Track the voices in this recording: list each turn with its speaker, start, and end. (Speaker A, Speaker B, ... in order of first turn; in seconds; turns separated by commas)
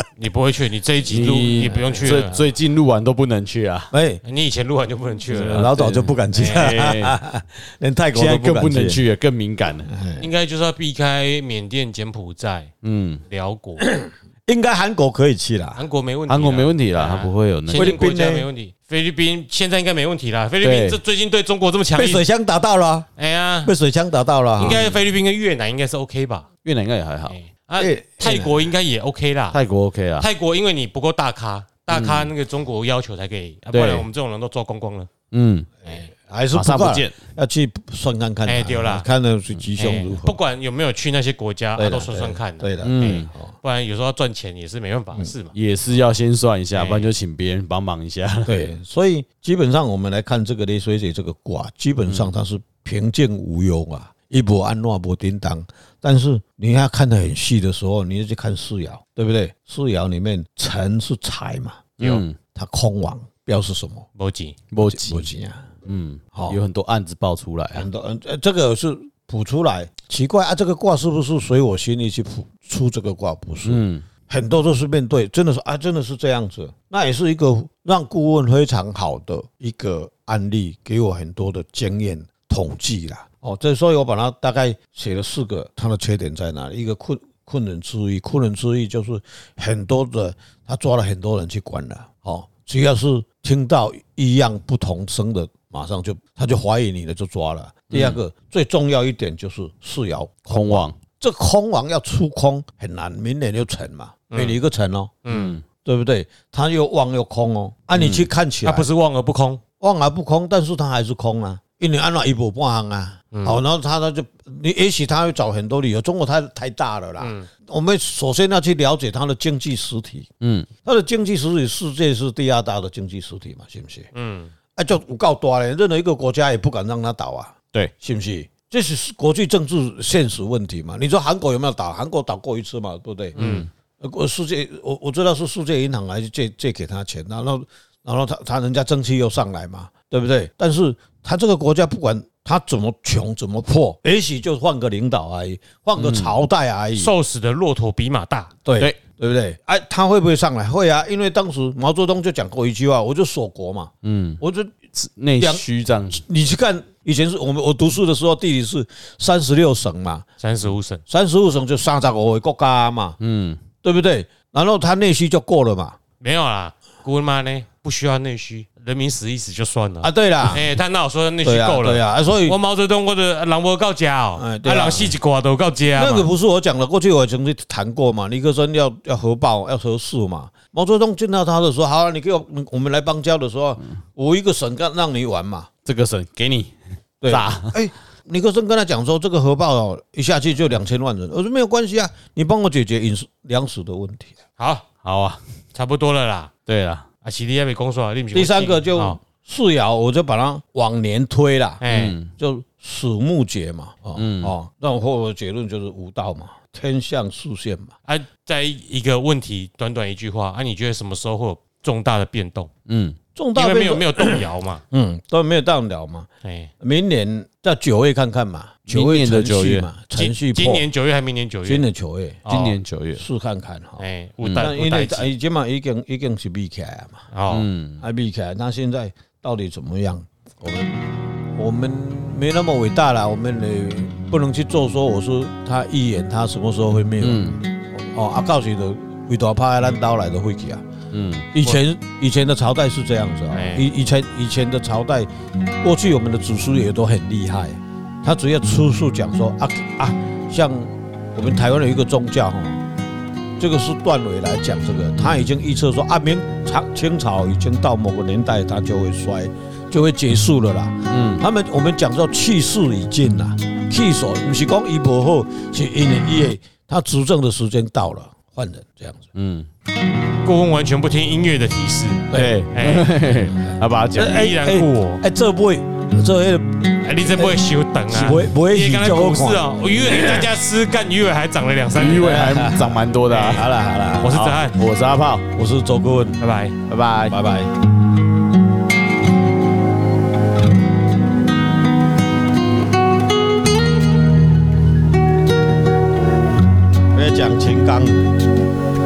Speaker A: 0.2-2.4, Speaker B: 1.1-3.9, Speaker C: 1.6-2.2, Speaker C: 3.9-4.2, Speaker A: 4.2-5.7, Speaker C: 5.3-9.0, Speaker B: 5.4-7.2, Speaker A: 6.3-6.7, Speaker B: 8.1-9.9, Speaker C: 9.9-10.3, Speaker A: 10.2-12.7, Speaker B: 12.8-13.2, Speaker A: 13.3-13.8, Speaker C: 13.8-15.8, Speaker A: 15.8-22.2, Speaker B: 16.3-18.0, Speaker C: 17.7-18.5, Speaker B: 20.6-21.0, Speaker C: 21.9-23.1, Speaker A: 23.2-23.7, Speaker C: 23.6-24.8, Speaker A: 24.6-26.5, Speaker B: 24.6-25.0, Speaker B: 26.6-27.4, Speaker A: 27.3-29.6, Speaker C: 27.8-28.7, Speaker B: 29.5-30.3, Speaker A: 30.2-35.1, Speaker B: 31.9-32.3, Speaker B: 33.7-34.1, Speaker B: 35.3-35.7, Speaker C: 35.9-40.4, Speaker B: 36.5-37.2, Speaker A: 38.5-39.1, Speaker A: 39.8-45.6, Speaker C: 41.8-43.5, Speaker B: 42.8-43.3, Speaker B: 45.5-48.7, Speaker A: 46.7-47.1, Speaker C: 48.5-61.9, Speaker B: 52.1-52.3, Speaker B: 62.0-62.4, Speaker C: 62.5-64.1, Speaker A: 64.2-64.6, Speaker B: 64.7-65.3, Speaker C: 64.8-65.7, Speaker B: 65.9-67.9, Speaker C: 66.3-66.6, Speaker C: 67.7-105.2, Speaker B: 73.7-74.0, Speaker B: 97.9-98.2, Speaker B: 100.5-101.0, Speaker A: 104.3-104.6, Speaker A: 105.3-105.6, Speaker B: 105.3-105.7, Speaker C: 105.8-108.9, Speaker B: 107.9-108.3, Speaker A: 108.6-109.6, Speaker C: 109.8-120.3, Speaker A: 113.3-113.6, Speaker A: 117.2-117.5, Speaker B: 120.4-120.7, Speaker C: 120.8-124.1, Speaker A: 124.1-124.5, Speaker C: 124.8-133.4, Speaker A: 133.3-133.7, Speaker B: 133.4-133.7, Speaker C: 134.0-147.1, Speaker B: 146.0-146.3, Speaker A: 146.9-148.5, Speaker C: 148.7-154.8, Speaker B: 154.0-154.4, Speaker B: 154.9-156.2, Speaker C: 155.4-160.2, Speaker A: 160.4-161.0, Speaker C: 161.1-163.2, Speaker B: 163.2-163.6, Speaker C: 163.8-166.0, Speaker A: 166.2-176.3, Speaker C: 170.0-170.8, Speaker C: 171.4-172.6, Speaker C: 174.4-175.1, Speaker C: 176.0-185.7, Speaker B: 185.8-186.7, Speaker C: 187.2-194.3, Speaker B: 187.3-187.8, Speaker A: 194.6-194.9, Speaker B: 195.0-195.4, Speaker A: 195.7-196.5, Speaker B: 196.7-197.1, Speaker A: 197.2-199.2, Speaker C: 198.3-201.8, Speaker A: 201.8-202.2, Speaker B: 201.9-202.3, Speaker C: 202.4-207.9, Speaker B: 204.2-204.6, Speaker A: 208.1-212.7, Speaker B: 212.9-213.2, Speaker C: 213.3-216.3, Speaker A: 213.6-214.8, Speaker A: 216.4-216.7, Speaker C: 216.8-220.9, Speaker B: 218.9-219.9, Speaker A: 220.2-221.9, Speaker C: 221.7-222.4, Speaker A: 222.4-222.8, Speaker B: 222.5-223.2, Speaker C: 223.2-224.0, Speaker A: 224.0-225.3, Speaker B: 224.4-224.7, Speaker C: 224.6-227.3, Speaker A: 227.3-227.7, Speaker B: 227.5-228.0, Speaker C: 228.0-230.9, Speaker C: 231.6-240.9, Speaker B: 237.2-237.6, Speaker B: 241.1-241.5, Speaker C: 241.5-245.3, Speaker A: 243.5-243.9, Speaker C: 245.8-252.8, Speaker C: 253.6-269.3, Speaker B: 255.2-255.5, Speaker B: 261.1-261.4, Speaker B: 269.4-269.7, Speaker A: 270.4-273.1, Speaker B: 272.3-274.5, Speaker C: 274.2-277.6, Speaker A: 274.2-275.2, Speaker A: 277.0-282.5, Speaker C: 278.1-279.6, Speaker B: 281.9-283.7, Speaker C: 282.1-284.4, Speaker A: 283.3-283.7, Speaker A: 284.2-284.8, Speaker B: 284.2-285.5, Speaker C: 285.5-286.4, Speaker A: 286.4-286.8, Speaker B: 286.9-287.4, Speaker C: 287.3-287.7, Speaker C: 297.1-298.3